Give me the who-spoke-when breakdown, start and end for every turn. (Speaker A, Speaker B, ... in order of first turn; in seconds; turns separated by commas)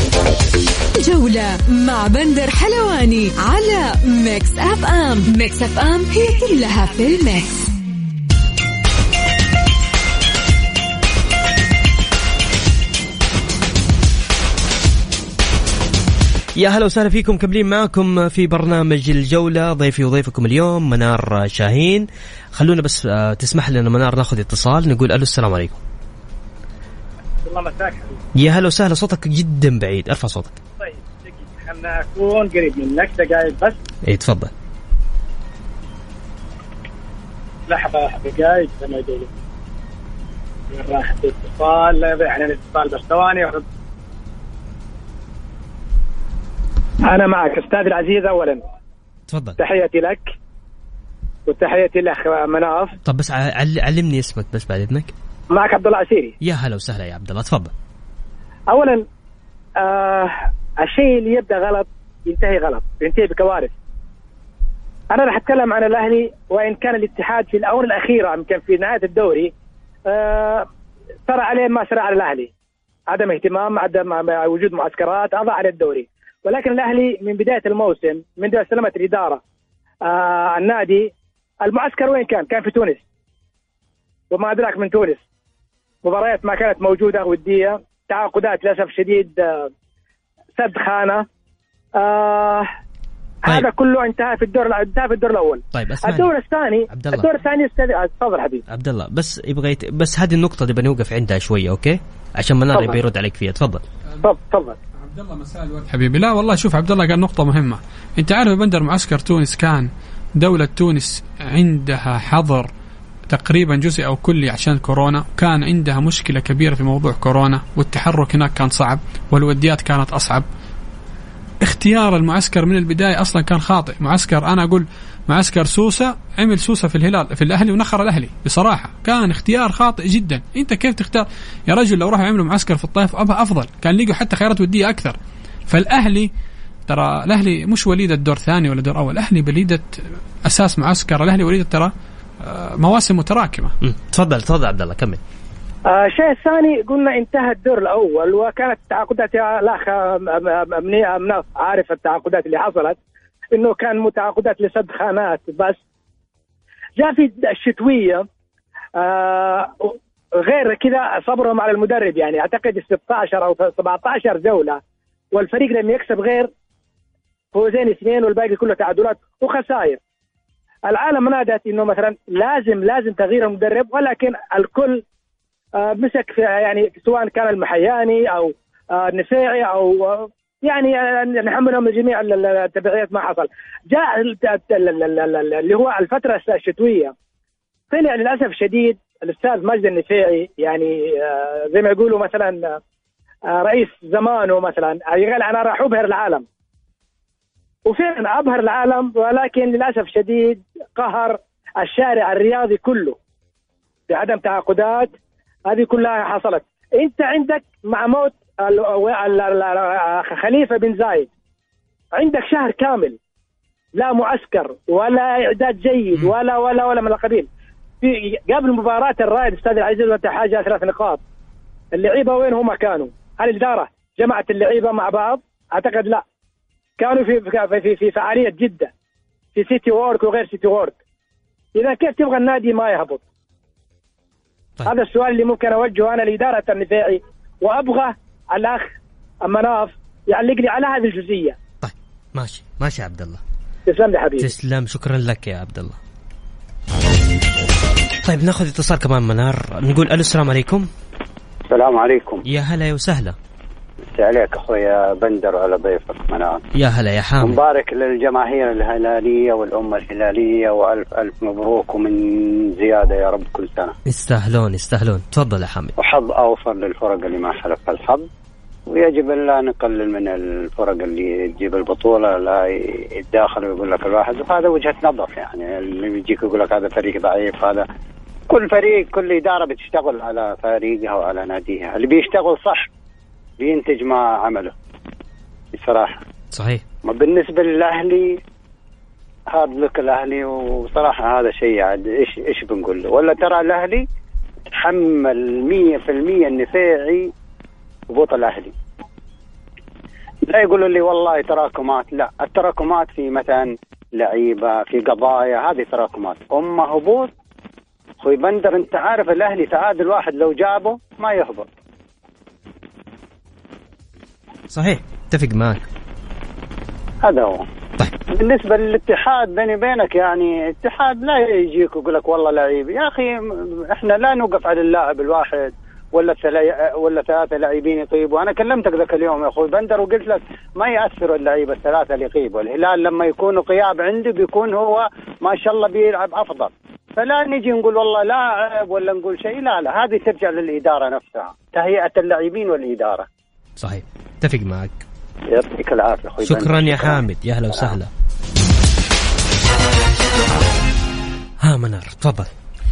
Speaker A: 1.0-7.7, Speaker B: 16.6-25.8, Speaker C: 27.4-28.2, Speaker B: 28.3-30.6, Speaker C: 30.8-33.8, Speaker B: 34.0-34.5, Speaker C: 37.7-39.3, Speaker C: 40.7-43.6, Speaker C: 47.1-48.6, Speaker B: 49.3-49.6, Speaker C: 49.6-50.3, Speaker C: 51.5-53.0, Speaker B: 53.0-55.1, Speaker C: 55.5-56.3, Speaker B: 56.4-57.7, Speaker C: 58.7-59.0, Speaker C: 59.8-63.7, Speaker C: 65.1-69.5, Speaker C: 70.1-70.7, Speaker C: 71.3-72.5, Speaker C: 73.1-79.4, Speaker C: 80.0-81.1, Speaker C: 81.6-83.0, Speaker C: 84.3-85.2, Speaker C: 86.0-89.7, Speaker C: 90.6-91.2, Speaker C: 92.0-92.7, Speaker C: 93.5-98.6, Speaker B: 95.7-96.3, Speaker B: 96.9-97.3, Speaker B: 98.7-103.8, Speaker C: 102.7-103.0, Speaker C: 104.2-104.8, Speaker D: 105.0-112.7, Speaker D: 113.3-120.5, Speaker D: 121.6-135.2, Speaker D: 135.7-136.3, Speaker D: 136.9-141.9, Speaker D: 142.4-143.7, Speaker B: 143.8-145.2, Speaker C: 145.9-153.0, Speaker C: 153.5-155.8, Speaker C: 157.0-158.2, Speaker C: 159.0-164.8, Speaker C: 165.3-166.5, Speaker C: 167.5-170.0, Speaker C: 170.9-175.0, Speaker C: 175.8-187.1, Speaker C: 187.9-192.8, Speaker C: 193.5-196.4, Speaker C: 197.8-203.2, Speaker C: 204.1-205.1, Speaker C: 205.7-211.3, Speaker C: 212.1-213.2, Speaker C: 213.9-217.5, Speaker C: 218.0-221.2, Speaker C: 221.9-226.2, Speaker C: 227.0-228.9, Speaker C: 229.5-230.9, Speaker C: 231.7-233.2, Speaker C: 234.8-238.9, Speaker C: 239.4-241.6, Speaker B: 241.8-243.4, Speaker C: 243.9-244.5, Speaker B: 244.4-246.0, Speaker B: 248.2-250.9, Speaker E: 251.7-252.4, Speaker B: 252.4-253.3, Speaker E: 254.1-256.6, Speaker B: 256.7-257.6, Speaker E: 257.4-263.9, Speaker B: 264.1-265.9, Speaker E: 266.0-268.2, Speaker E: 268.9-277.8, Speaker E: 278.5-282.9, Speaker E: 283.6-284.7, Speaker E: 285.7-286.2, Speaker B: 286.5-286.8, Speaker E: 287.1-288.3, Speaker E: 289.5-294.0, Speaker E: 294.7-297.3, Speaker E: 298.1-298.7, Speaker E: 300.5-307.3, Speaker E: 308.2-311.7, Speaker B: 314.7-315.8, Speaker E: 317.2-317.6, Speaker E: 318.3-343.3, Speaker B: 343.8-345.0, Speaker E: 345.5-347.2, Speaker B: 346.4-348.1, Speaker B: 351.6-352.5